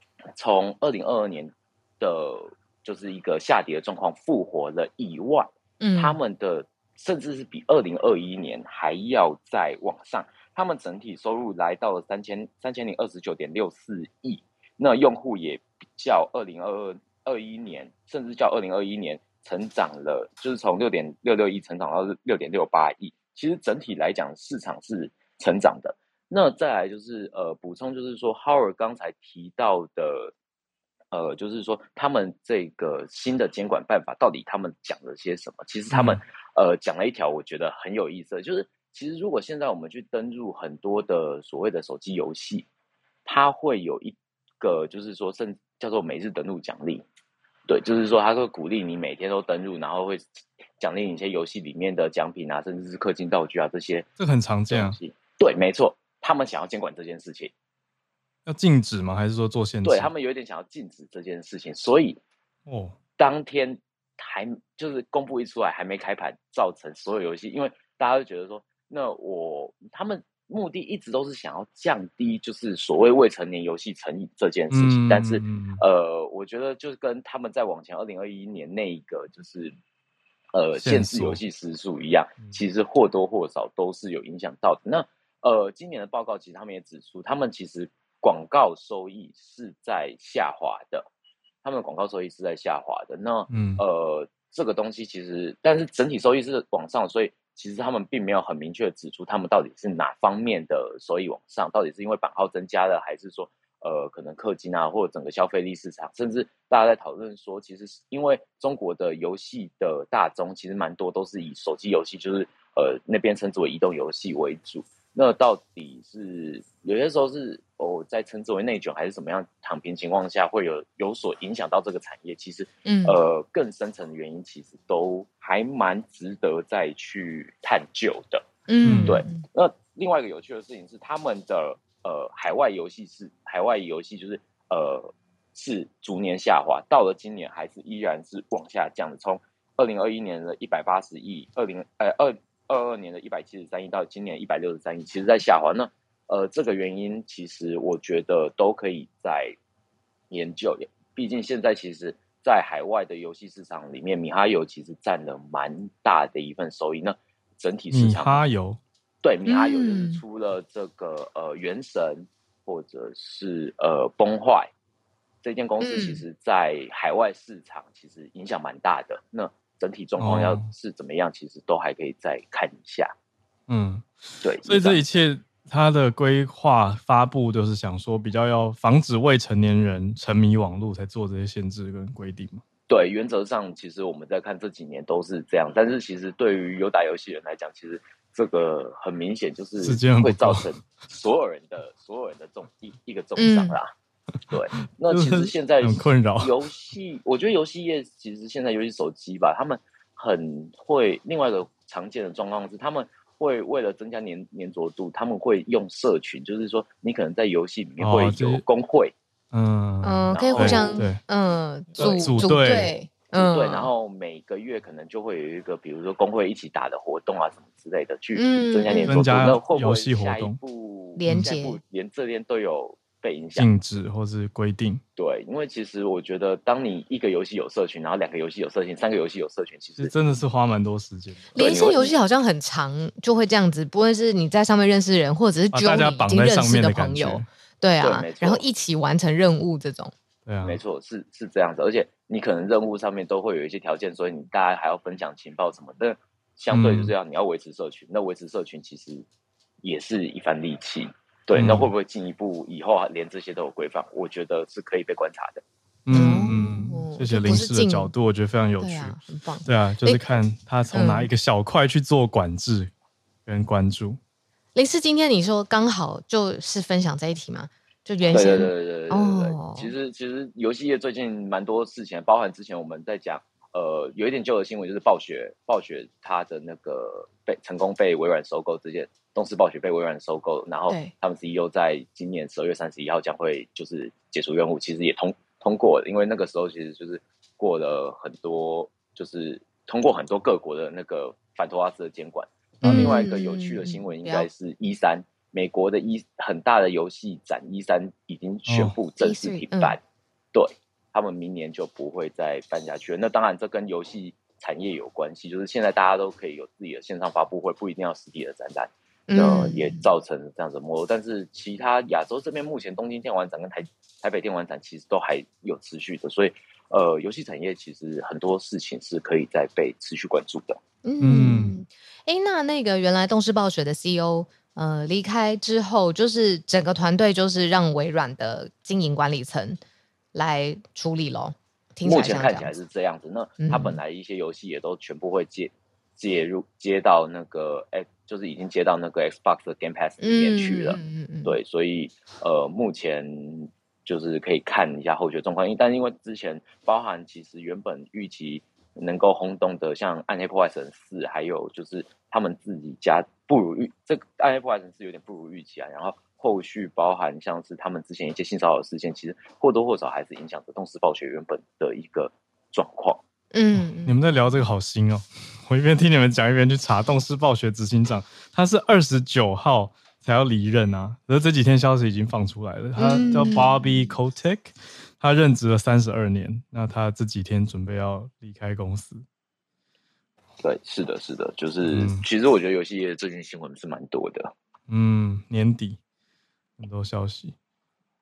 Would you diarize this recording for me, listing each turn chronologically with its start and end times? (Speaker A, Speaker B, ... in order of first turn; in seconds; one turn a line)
Speaker A: 0.3-30.3
Speaker B: 5.8-6.2
Speaker A: 31.1-42.7
Speaker C: 35.9-36.2
Speaker A: 43.2-47.0
Speaker A: 47.7-54.1
Speaker C: 54.2-55.0
Speaker A: 54.7-57.5
Speaker C: 58.5-60.1
Speaker A: 59.8-62.2
Speaker C: 62.7-63.0
Speaker A: 63.2-79.7
Speaker C: 74.7-75.8
Speaker A: 80.5-91.1
Speaker C: 80.8-81.4
Speaker A: 91.6-128.4
Speaker C: 93.5-93.8
Speaker B: 122.8-123.2
Speaker B: 128.7-129.4
Speaker C: 128.8-129.2
Speaker A: 129.0-149.6
Speaker A: 150.3-158.4
Speaker C: 157.9-158.8
Speaker A: 159.2-164.7
Speaker B: 159.5-160.2
Speaker A: 165.4-173.1
Speaker B: 165.8-166.2
Speaker C: 170.2-170.7
Speaker C: 173.7-174.1
Speaker A: 174.4-175.0
Speaker C: 174.6-182.6
Speaker A: 182.9-193.9
Speaker C: 189.8-190.7
Speaker B: 193.4-193.8
Speaker A: 194.5-209.1
Speaker C: 195.1-196.5
Speaker C: 208.0-208.6
Speaker C: 209.5-211.2
Speaker B: 210.0-213.9
Speaker A: 210.3-211.1
Speaker C: 212.0-212.9
Speaker A: 212.0-212.4
Speaker A: 213.3-223.7
Speaker B: 218.3-219.2
Speaker C: 218.9-220.6
Speaker B: 221.2-221.8
Speaker C: 223.5-225.0
Speaker A: 225.2-230.1
Speaker C: 230.0-231.6
Speaker B: 231.5-240.1
Speaker A: 231.5-232.1
Speaker C: 235.7-237.4
Speaker A: 238.0-238.6
Speaker C: 240.4-240.8
Speaker A: 240.6-249.2
Speaker C: 246.7-247.1
Speaker A: 249.8-255.6
Speaker C: 251.5-251.9
Speaker C: 256.1-262.9
Speaker B: 256.1-258.1
Speaker B: 258.8-260.2
Speaker B: 260.9-261.3
Speaker C: 263.4-264.2
Speaker B: 264.7-269.9
Speaker A: 268.2-300.0
Speaker C: 292.8-293.2
Speaker B: 292.8-294.5
Speaker C: 298.6-298.9
Speaker B: 299.2-300.0
Speaker A: 300.5-320.8
Speaker B: 309.3-310.0
Speaker B: 321.0-329.8
Speaker C: 321.2-321.8
Speaker B: 330.3-332.8
Speaker A: 332.0-363.2
Speaker B: 333.6-334.0
Speaker B: 340.2-341.6
Speaker B: 363.5-364.1
Speaker C: 363.7-379.2
Speaker B: 373.0-373.7
Speaker A: 380.6-384.5
Speaker C: 381.8-382.2
Speaker C: 384.9-386.0
Speaker C: 386.8-387.5